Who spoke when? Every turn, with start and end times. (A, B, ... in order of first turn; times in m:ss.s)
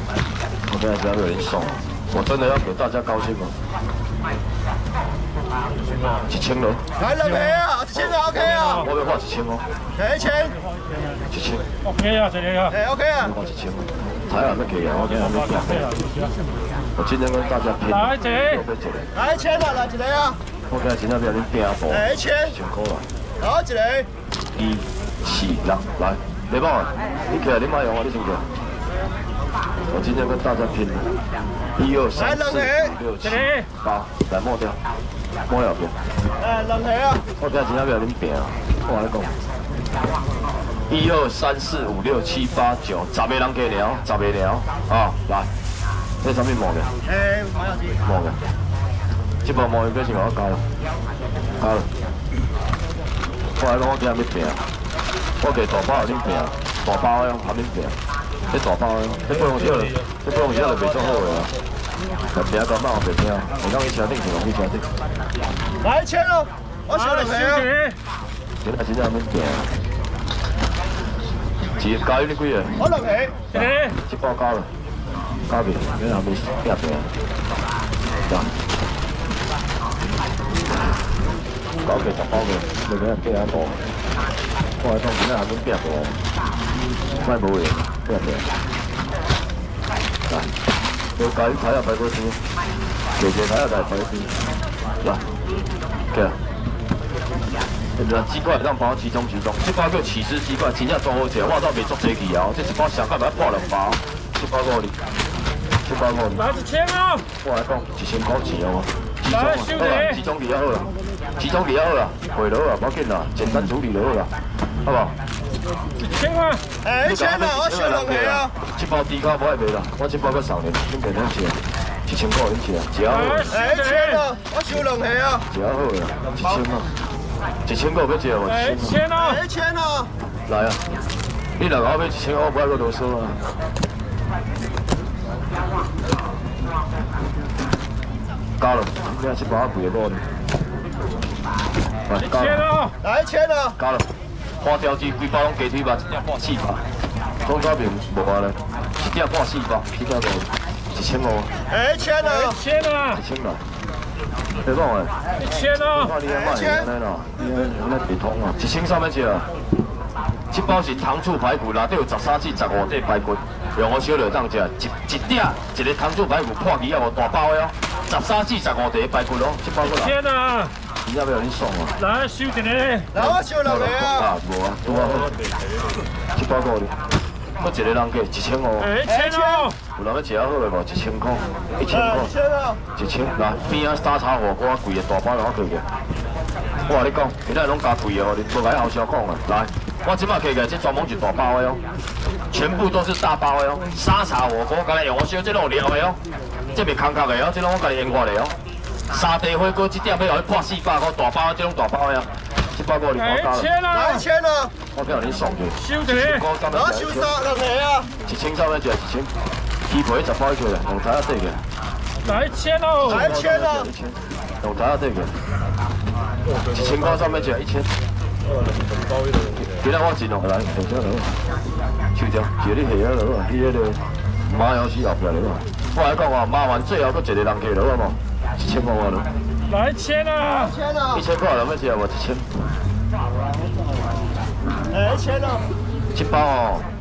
0:00.7-0:03.5 A
0:06.3-0:06.8 A
0:07.0-0:08.9 B
0:08.0-0:09.6 A
0:10.0-0:10.6 B
0:11.3-0:11.6 A
0:12.0-0:12.7 C
0:12.7-0:13.3 B
0:13.2-0:15.9 A
0:15.8-0:16.3 C
0:17.0-0:19.0 A
0:18.1-0:18.4 C
0:19.1-0:20.4 B
0:20.7-0:23.0 A
0:21.9-0:22.5 B
0:23.4-0:24.1 B
0:24.6-0:28.4 A
0:29.9-0:31.1 A
0:31.8-0:34.8 A
0:32.2-0:32.9 B
0:33.4-0:33.6 C
0:35.5-0:36.0 A
0:36.4-0:37.2 B
0:37.4-0:39.3 A
0:40.9-0:45.5 A
0:46.2-0:46.9 A
0:47.1-0:48.0 B
0:48.0-0:48.4 A
0:49.4-0:50.6 A
0:51.6-0:51.9 A
0:53.6-0:54.6 A
0:55.4-0:57.9 A
0:58.5-1:01.5 A
0:59.3-0:59.6 C
1:00.3-1:01.1 B
1:02.3-1:04.8 A
1:05.8-1:07.7 B
1:07.0-1:08.0 C
1:08.6-1:09.7 A
1:11.8-1:12.8 A
1:12.8-1:13.3 B
1:13.5-1:14.7 A
1:13.6-1:13.9 C
1:15.5-1:17.1 A
1:21.8-1:23.8 A
1:24.8-1:26.2 A
1:27.2-1:28.4 A
1:31.2-1:32.4 A
1:33.2-1:34.3 A
1:38.0-1:44.9 A
1:45.8-1:46.5 A
1:46.4-1:47.2 C
1:47.4-1:54.3 A
1:49.3-1:50.1 C
1:54.8-1:55.2 A
1:56.2-1:56.6 C
1:56.8-1:58.5 B
1:57.0-2:03.5 A
2:03.1-2:04.1 C
2:03.5-2:05.4 B
2:05.5-2:06.9 A
2:07.7-2:09.0 A
2:08.5-2:09.4 C
2:09.1-2:10.1 B
2:10.5-2:10.8 A
2:11.6-2:13.4 A
2:18.6-2:20.2 A
2:22.1-2:22.7 A
2:22.4-2:22.9 C
2:23.0-2:23.8 B
2:23.8-2:24.1 A
2:24.6-2:26.8 A
2:27.4-2:31.5 A
2:31.7-2:32.6 B
2:32.2-2:33.2 C
2:33.1-2:33.6 A
2:34.6-2:35.1 A
2:35.4-2:36.1 C
2:35.7-2:39.5 A
2:36.2-2:36.9 B
2:40.5-2:50.2 A
2:50.0-2:50.7 C
2:51.0-2:52.0 A
2:52.0-2:53.1 C
2:53.1-2:54.3 B
2:53.2-2:55.3 A
2:56.3-2:56.9 A
2:57.6-2:59.0 A
2:58.8-2:59.7 C
2:59.1-2:59.7 B
3:00.0-3:02.3 A
3:01.8-3:02.8 B
3:03.0-3:05.8 A
3:06.8-3:11.8 A
3:12.5-3:16.2 A
3:16.7-3:18.5 A
3:19.1-3:23.7 A
3:23.3-3:24.2 C
3:23.9-3:24.7 B
3:24.9-3:27.3 A
3:25.8-3:26.4 C
3:26.7-3:28.1 B
3:28.2-3:29.3 A
3:29.9-3:31.6 A
3:32.3-3:33.3 C
3:33.0-3:33.9 B
3:33.0-3:35.3 A
3:36.7-3:37.9 A
3:39.6-3:41.3 A
3:42.1-3:49.3 A
3:49.7-3:50.7 C
3:50.4-3:51.2 B
3:51.1-3:52.5 A
3:54.9-3:55.6 B
3:56.1-3:56.8 A